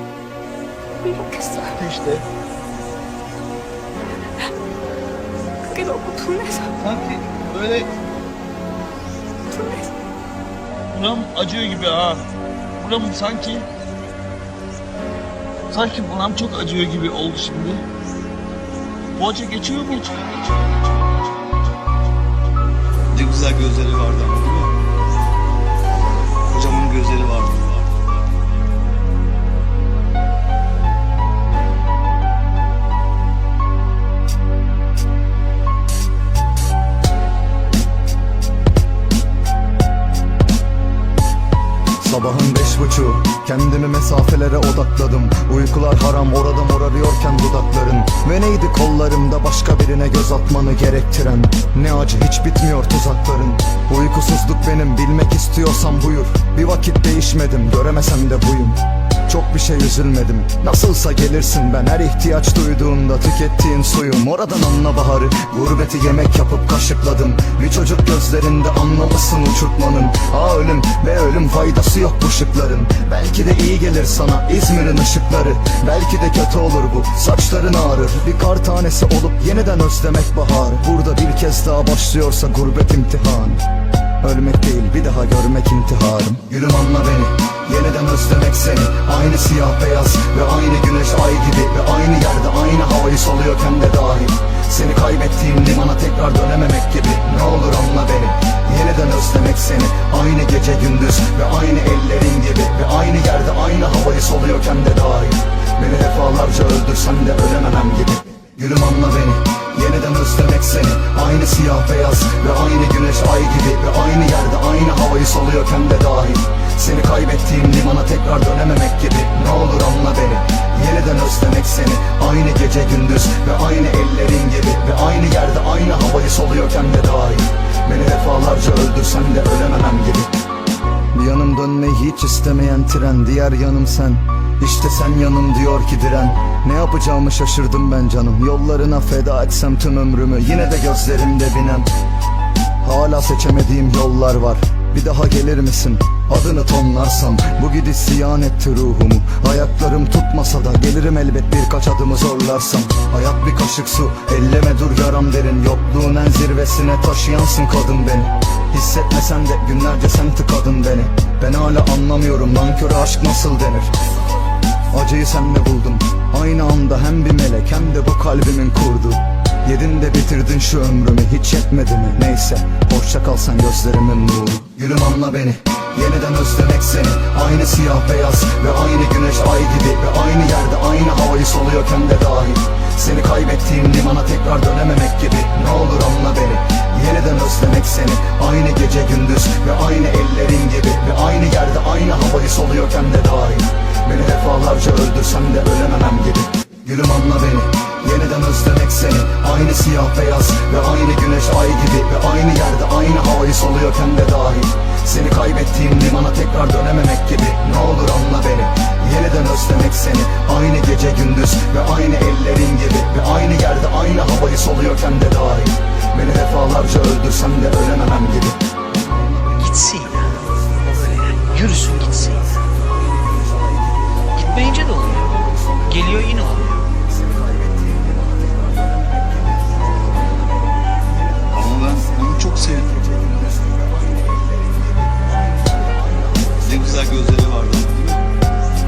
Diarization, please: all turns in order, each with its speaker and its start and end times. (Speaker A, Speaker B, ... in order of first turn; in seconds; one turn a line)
Speaker A: 1.0-1.8
Speaker B: 1.8-2.2
Speaker A: 5.7-6.8
Speaker B: 6.8-7.9
Speaker A: 9.5-9.9
Speaker B: 10.9-12.3
Speaker B: 12.8-13.7
Speaker B: 15.7-17.8
Speaker B: 19.2-20.7
Speaker C: 23.1-24.7
Speaker C: 26.5-28.1
Speaker D: 42.0-83.6
Speaker D: 84.2-130.3
Speaker D: 131.1-141.9
Speaker D: 142.8-163.9
Speaker D: 164.9-218.6
Speaker E: 219.6-220.4
Speaker E: 220.9-222.5
Speaker E: 224.4-225.3
Speaker E: 225.9-226.8
Speaker C: 231.6-232.9
Speaker D: 232.8-234.2
Speaker C: 236.7-238.3